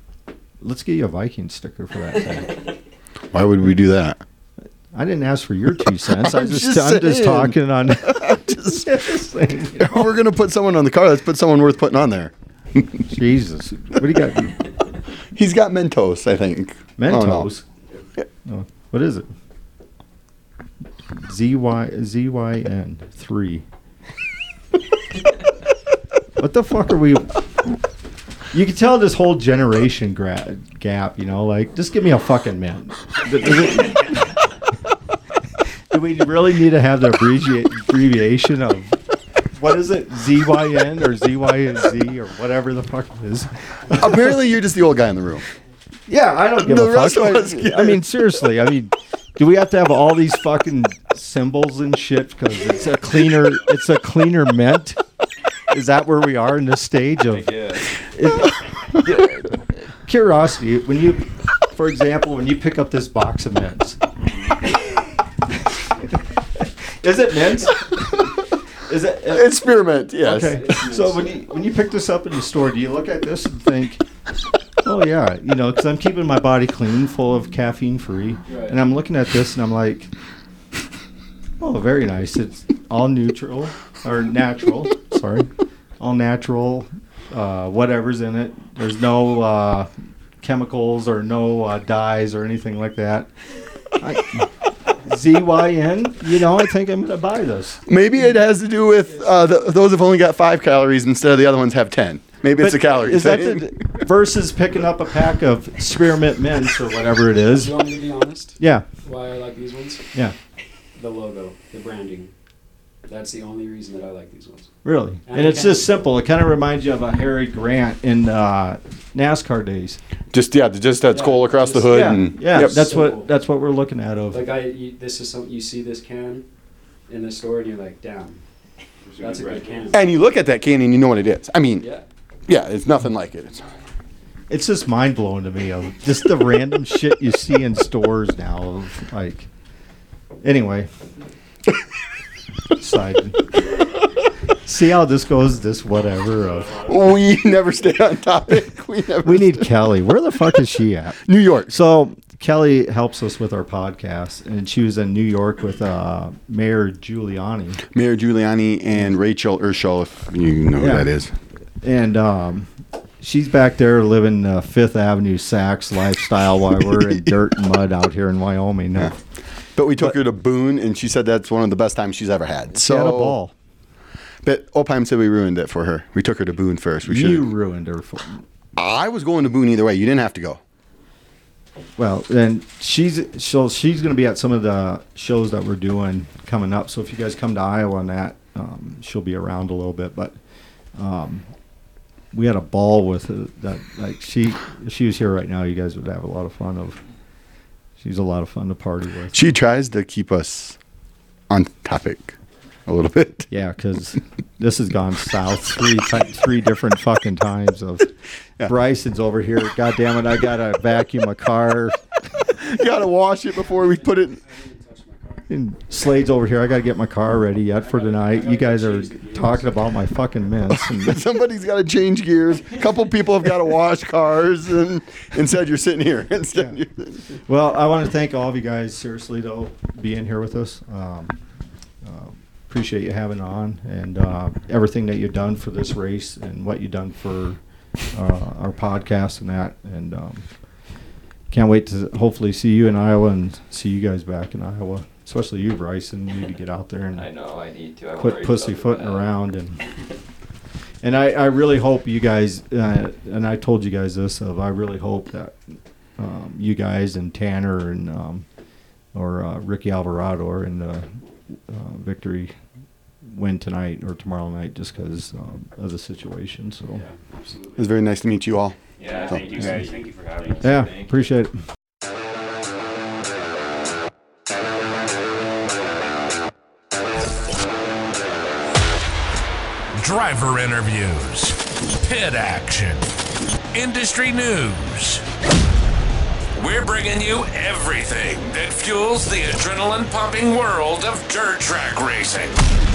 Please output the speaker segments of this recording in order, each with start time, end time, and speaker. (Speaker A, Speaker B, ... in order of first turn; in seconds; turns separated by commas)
Speaker A: 0.6-2.6, Speaker B: 3.3-4.2, Speaker A: 4.9-10.2, Speaker B: 6.2-8.9, Speaker B: 9.7-13.1, Speaker A: 13.1-14.6, Speaker B: 15.3-17.5, Speaker A: 17.0-17.6, Speaker A: 18.4-19.3, Speaker A: 21.1-23.6, Speaker A: 26.4-27.4, Speaker A: 28.5-34.4, Speaker A: 35.9-39.0, Speaker A: 39.5-44.4, Speaker B: 43.9-45.4, Speaker A: 46.1-55.0, Speaker B: 46.6-48.0, Speaker A: 55.7-57.5, Speaker C: 57.3-58.0, Speaker A: 58.1-64.0, Speaker C: 64.2-64.5, Speaker A: 66.5-69.6, Speaker B: 69.3-70.7, Speaker A: 70.2-74.0, Speaker D: 70.2-71.4, Speaker A: 74.8-80.1, Speaker D: 78.5-78.8, Speaker A: 81.6-93.3, Speaker A: 93.8-97.8, Speaker B: 97.9-103.8, Speaker D: 99.0-99.7, Speaker A: 102.6-107.7, Speaker D: 107.5-110.1, Speaker A: 108.6-108.8, Speaker D: 111.0-112.3, Speaker D: 113.0-114.7, Speaker A: 114.8-120.0, Speaker D: 115.2-116.0, Speaker B: 120.3-122.9, Speaker D: 121.1-123.3, Speaker A: 121.9-124.4, Speaker D: 124.3-126.5, Speaker D: 127.1-128.4, Speaker C: 129.0-130.0, Speaker D: 129.2-130.0, Speaker B: 129.9-131.9, Speaker D: 131.8-132.0, Speaker B: 132.5-133.7, Speaker A: 134.5-139.5, Speaker A: 140.4-140.9, Speaker A: 142.8-143.5, Speaker A: 144.5-146.8, Speaker B: 146.8-149.7, Speaker A: 149.2-157.8, Speaker B: 151.2-151.7, Speaker B: 157.9-161.3, Speaker A: 160.8-161.1, Speaker A: 161.8-169.1, Speaker B: 169.7-173.4, Speaker A: 172.7-173.5, Speaker B: 174.4-177.4, Speaker A: 177.0-178.4, Speaker B: 178.8-180.6, Speaker A: 182.0-190.4, Speaker A: 190.9-191.5, Speaker A: 192.3-197.0, Speaker A: 198.0-199.4, Speaker B: 199.3-200.8, Speaker B: 201.5-202.3, Speaker B: 202.8-203.5, Speaker A: 203.5-212.3, Speaker B: 212.5-214.4, Speaker D: 213.5-215.6, Speaker A: 215.5-221.2, Speaker D: 217.8-219.8, Speaker B: 220.7-227.4, Speaker A: 227.4-231.4, Speaker A: 232.0-237.6, Speaker A: 238.1-240.5, Speaker A: 241.5-247.3, Speaker E: 247.1-249.3, Speaker A: 248.2-249.8, Speaker A: 251.0-258.4, Speaker A: 259.1-262.5, Speaker A: 263.2-267.0, Speaker D: 266.9-268.0, Speaker B: 267.8-269.4, Speaker D: 269.0-270.8, Speaker C: 269.0-271.3, Speaker A: 270.6-271.6, Speaker F: 279.9-283.1, Speaker F: 283.7-285.2, Speaker F: 286.5-292.5